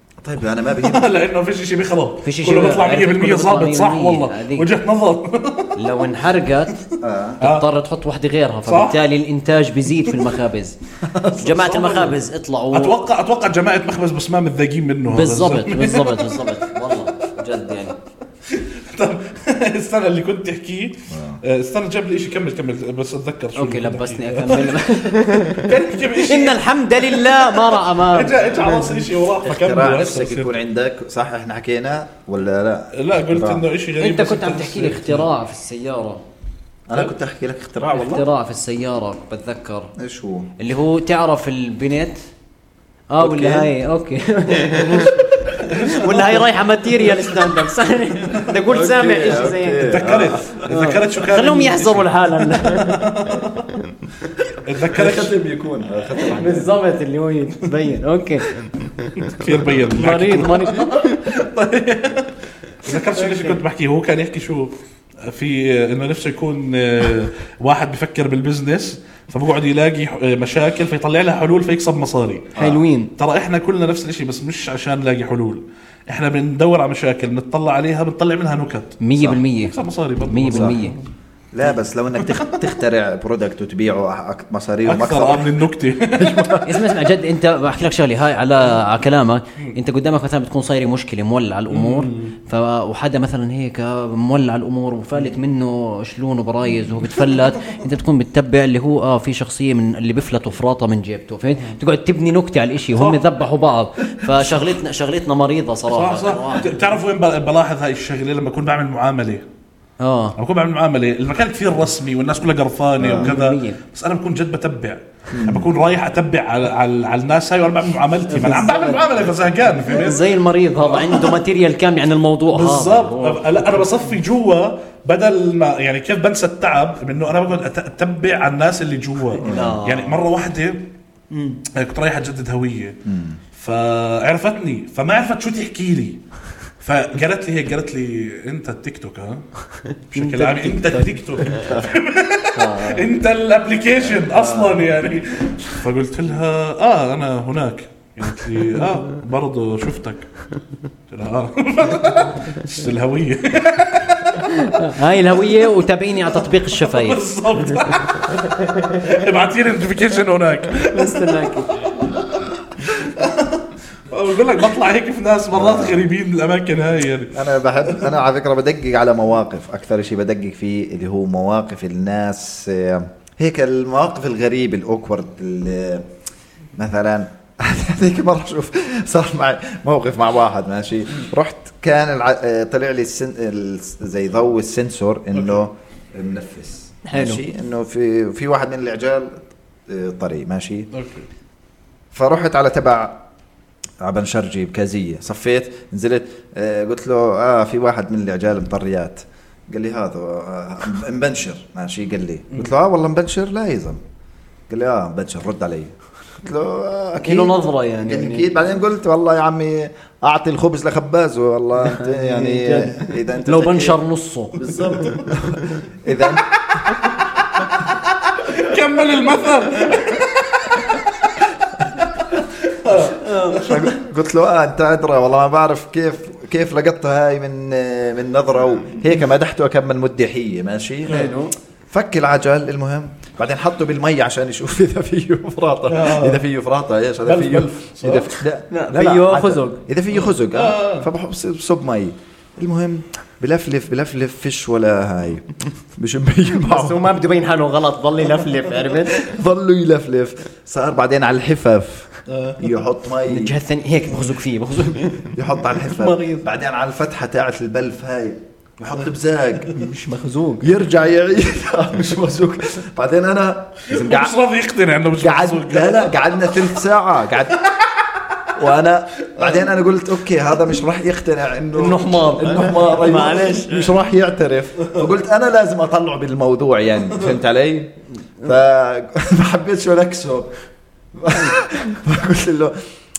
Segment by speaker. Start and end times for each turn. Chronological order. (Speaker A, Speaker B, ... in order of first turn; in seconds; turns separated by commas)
Speaker A: 0.2-1.1, Speaker B: 0.8-5.8, Speaker C: 2.2-4.7, Speaker C: 5.8-6.8, Speaker A: 7.0-7.4, Speaker B: 7.4-7.7, Speaker C: 7.4-10.8, Speaker B: 8.7-9.0, Speaker A: 11.0-12.0, Speaker C: 11.4-12.9, Speaker B: 11.7-12.0, Speaker B: 12.7-16.6, Speaker C: 15.1-18.0, Speaker B: 18.5-30.5, Speaker A: 21.1-21.4, Speaker C: 23.6-28.9, Speaker A: 29.4-33.6, Speaker B: 32.9-35.3, Speaker C: 34.0-36.2, Speaker A: 36.9-38.3, Speaker C: 37.9-39.9, Speaker A: 40.0-40.5, Speaker C: 40.6-42.2, Speaker C: 43.1-49.9, Speaker A: 43.2-43.7, Speaker B: 45.6-46.4, Speaker A: 48.7-50.6, Speaker B: 49.9-53.8, Speaker C: 50.6-53.1, Speaker B: 54.6-55.4, Speaker A: 54.9-56.7, Speaker C: 56.2-58.5, Speaker B: 59.1-72.5, Speaker C: 59.9-61.1, Speaker C: 63.1-63.6, Speaker A: 72.5-72.8, Speaker C: 72.6-73.1, Speaker B: 73.2-79.0, Speaker C: 79.0-81.0, Speaker B: 79.6-81.0, Speaker A: 80.5-80.8, Speaker A: 81.5-85.5, Speaker B: 82.3-82.6, Speaker B: 84.8-86.8, Speaker C: 86.6-106.9, Speaker B: 91.7-92.3, Speaker B: 103.0-103.3, Speaker B: 105.9-109.5, Speaker C: 110.0-110.3, Speaker B: 110.4-120.3, Speaker A: 113.0-113.3, Speaker C: 113.2-113.8, Speaker A: 115.3-115.7, Speaker C: 118.3-119.3, Speaker C: 119.8-123.9, Speaker B: 120.9-121.4, Speaker B: 122.5-130.9, Speaker C: 129.4-130.2, Speaker A: 129.4-129.8, Speaker C: 131.3-131.6, Speaker B: 131.7-133.0, Speaker A: 133.1-133.4, Speaker B: 133.5-136.2, Speaker B: 136.8-139.5, Speaker B: 140.1-150.3, Speaker C: 140.1-141.8, Speaker C: 142.6-143.1, Speaker B: 151.1-154.8, Speaker C: 154.4-157.2, Speaker B: 156.6-167.4, Speaker C: 160.9-161.9, Speaker A: 165.5-166.1, Speaker A: 167.3-176.1, Speaker A: 176.8-190.9, Speaker B: 185.3-185.6, Speaker C: 187.1-187.4, Speaker B: 190.9-191.3, Speaker A: 192.1-193.2, Speaker A: 194.0-204.0, Speaker A: 204.7-214.0, Speaker C: 207.2-208.5, Speaker C: 211.8-215.3, Speaker A: 214.6-216.9, Speaker B: 218.1-221.3, Speaker B: 222.7-223.8, Speaker C: 223.0-223.9, Speaker A: 223.6-231.3, Speaker C: 231.1-231.5, Speaker A: 231.9-247.1, Speaker B: 235.9-236.4, Speaker B: 237.2-238.3, Speaker C: 238.7-239.8, Speaker B: 240.2-241.1, Speaker C: 246.6-249.3, Speaker A: 249.1-253.6, Speaker B: 252.3-252.6, Speaker C: 253.3-256.5, Speaker A: 255.3-259.8, Speaker C: 259.7-260.7, Speaker A: 260.6-264.3, Speaker B: 263.9-266.2, Speaker A: 265.2-267.6, Speaker A: 268.6-280.5, Speaker C: 271.8-273.9, Speaker A: 281.1-282.8